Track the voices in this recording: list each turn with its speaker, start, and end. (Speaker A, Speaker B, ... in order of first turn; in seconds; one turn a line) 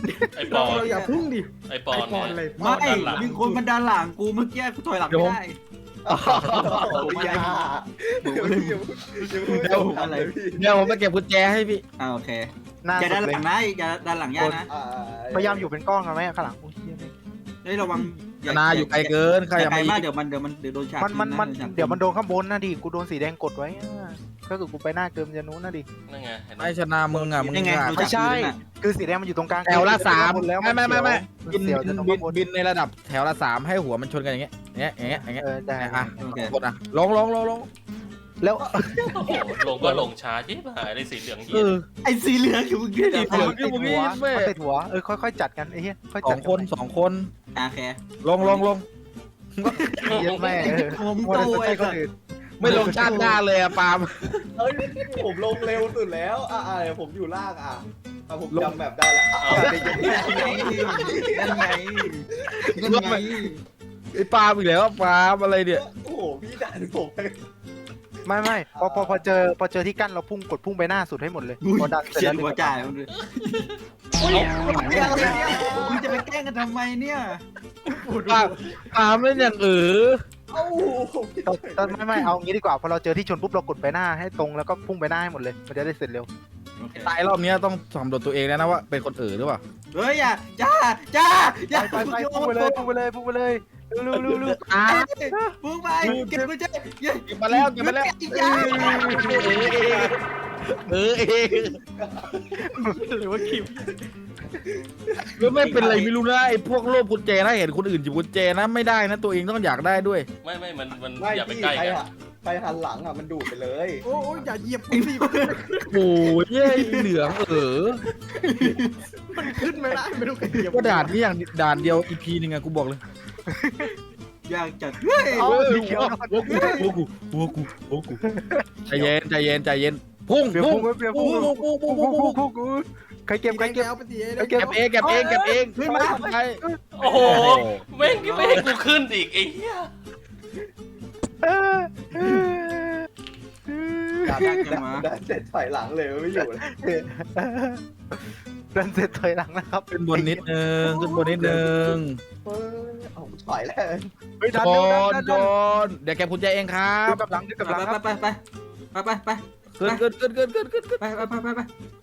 Speaker A: 0.3-3.3
Speaker B: 0.5-3.6
Speaker C: 2.6-5.6
Speaker D: 5.1-5.4
Speaker E: 6.0-11.0
Speaker D: 6.1-7.0
Speaker C: 6.4-7.6
Speaker C: 8.2-10.3
Speaker D: 9.6-9.9
Speaker D: 10.5-11.8
Speaker C: 12.0-14.7
Speaker F: 12.8-13.4
Speaker F: 14.4-14.6
Speaker E: 14.7-15.7
Speaker F: 15.3-17.1
Speaker C: 17.6-22.0
Speaker D: 18.5-20.0
Speaker F: 21.0-25.9
Speaker A: 26.1-26.8
Speaker D: 26.6-28.2
Speaker C: 27.1-28.6
Speaker F: 27.9-32.4
Speaker D: 29.6-37.7
Speaker F: 35.0-36.2
Speaker C: 36.2-36.5
Speaker F: 38.4-39.2
Speaker A: 39.0-41.8
Speaker D: 39.8-40.0
Speaker D: 41.5-41.9
Speaker C: 42.0-43.6
Speaker D: 43.1-44.5
Speaker F: 43.2-46.7
Speaker D: 46.2-47.3
Speaker C: 47.5-48.6
Speaker D: 48.2-48.8
Speaker D: 49.5-50.2
Speaker C: 49.7-52.0
Speaker A: 50.0-50.7
Speaker F: 50.1-53.4
Speaker D: 52.6-54.4
Speaker C: 52.6-53.4
Speaker E: 54.5-62.9
Speaker A: 59.4-60.3
Speaker C: 59.7-63.6
Speaker D: 62.8-63.3
Speaker D: 64.1-65.8
Speaker E: 65.7-67.3
Speaker F: 68.2-72.8
Speaker E: 68.7-69.2
Speaker C: 71.6-73.7
Speaker E: 74.2-76.2
Speaker C: 74.3-77.4
Speaker B: 77.8-78.8
Speaker D: 78.3-80.2
Speaker E: 80.5-82.3
Speaker F: 81.4-86.3
Speaker C: 86.8-87.1
Speaker D: 87.0-89.6
Speaker C: 89.9-92.8
Speaker F: 91.7-95.5
Speaker C: 94.1-100.0
Speaker D: 94.6-95.1
Speaker D: 96.0-96.5
Speaker D: 97.3-100.2
Speaker D: 100.7-101.8
Speaker E: 101.9-102.7
Speaker B: 102.7-104.0
Speaker E: 104.6-106.0
Speaker D: 105.4-110.2
Speaker C: 105.6-106.1
Speaker A: 110.4-112.0
Speaker E: 111.2-114.0
Speaker B: 114.0-116.0
Speaker C: 114.9-115.9
Speaker D: 115.9-118.0
Speaker C: 116.6-117.1
Speaker C: 118.4-119.0
Speaker B: 119.3-121.2
Speaker D: 120.5-123.0
Speaker F: 123.5-123.9
Speaker C: 124.5-125.6
Speaker F: 125.3-126.9
Speaker D: 125.3-128.2
Speaker C: 126.4-126.8
Speaker F: 128.2-129.1
Speaker D: 128.8-132.4
Speaker F: 130.5-133.9
Speaker C: 131.2-131.6
Speaker B: 133.5-134.8
Speaker F: 134.4-137.3
Speaker D: 134.5-137.8
Speaker C: 135.1-136.2
Speaker A: 137.0-139.9
Speaker F: 141.4-143.1
Speaker F: 143.7-144.7
Speaker C: 144.2-145.1
Speaker E: 144.2-146.6
Speaker F: 146.3-150.4
Speaker D: 149.9-152.2
Speaker E: 150.8-151.6
Speaker E: 152.4-154.1
Speaker F: 154.4-155.5
Speaker D: 154.5-157.2
Speaker F: 157.1-158.0
Speaker C: 157.6-158.4
Speaker C: 158.9-160.0
Speaker D: 159.8-161.1
Speaker C: 161.0-161.7